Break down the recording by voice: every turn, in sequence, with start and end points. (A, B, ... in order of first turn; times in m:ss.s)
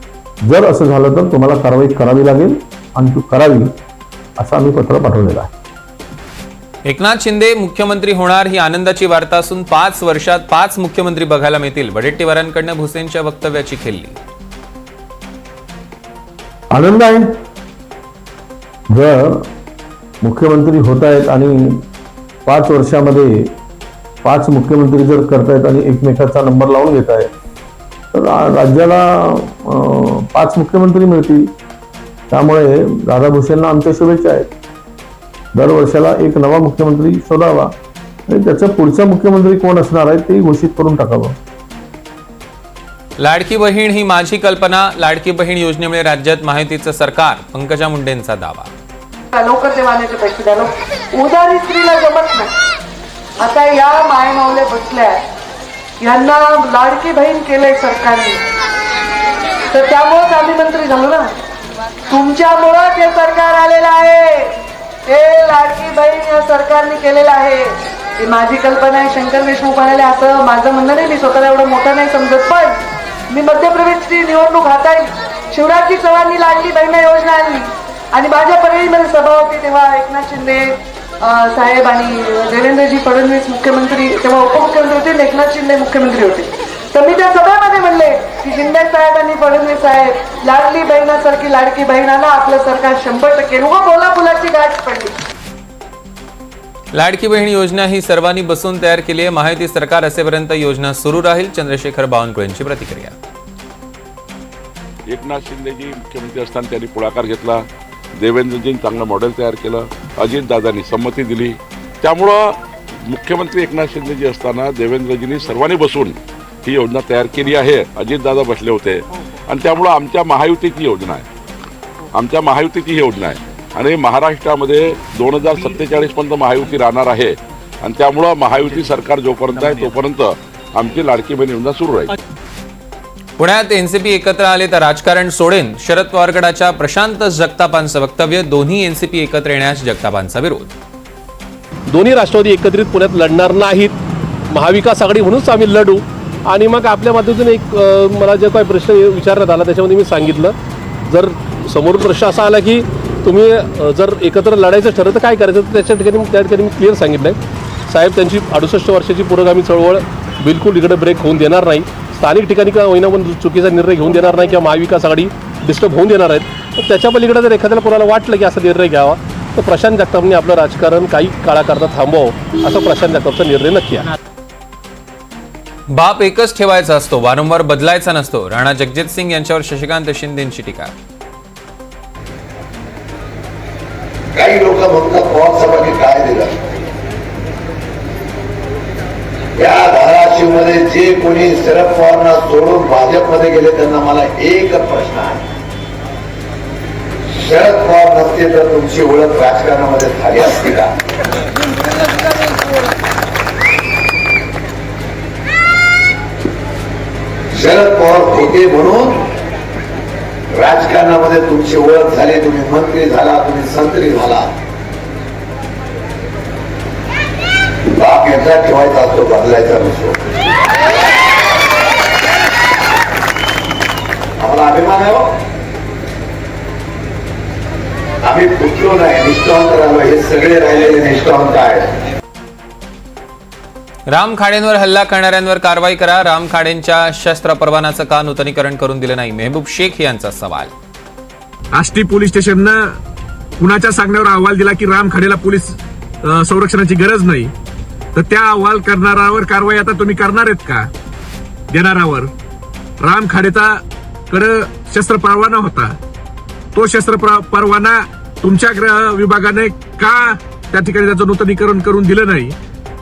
0:00.4-0:03.8 A
0:04.4-0:05.5 A
0:06.8-0:14.2 B
0:16.7-0:17.3 A
0:18.9-0:19.5 A
0:20.2-0:21.8 A
0:22.5-0:23.5 A
0:24.2-0:27.3 A
0:28.1-0:31.5 A
0:32.3-0:34.5 A
0:35.5-0:37.7 A
0:38.3-0:41.4 A
0:43.2-0:48.7 B
0:49.3-0:52.5 C
0:53.4-0:55.2 C
0:56.0-0:58.4 C
0:59.7-1:01.2 C
1:02.1-1:04.3 C
1:05.1-1:07.6 C
1:08.2-1:12.7 C
1:13.3-1:20.6 C
1:21.2-1:35.1 C
1:36.9-1:43.2 B
1:45.1-1:47.6 D
1:48.2-2:01.3 D
2:02.1-2:12.1 D
2:13.4-2:20.7 B
2:21.9-2:24.0 E
2:24.5-2:30.5 E
2:31.1-2:37.4 E
2:37.9-2:54.1 E
2:55.9-3:00.9 B
3:04.3-3:06.6 F
3:09.6-3:15.4 F
3:17.3-3:20.9 F
3:27.5-3:29.3 F
3:30.5-3:34.5 F
3:37.9-3:40.2 F
3:44.4-3:45.3 F
3:48.2-3:51.9 F
3:54.1-4:00.7 B
4:01.7-4:02.9 G
4:03.6-4:07.5 G
4:08.2-4:10.9 G
4:11.7-4:12.3 G
4:13.0-4:16.0 G
4:16.8-4:22.5 G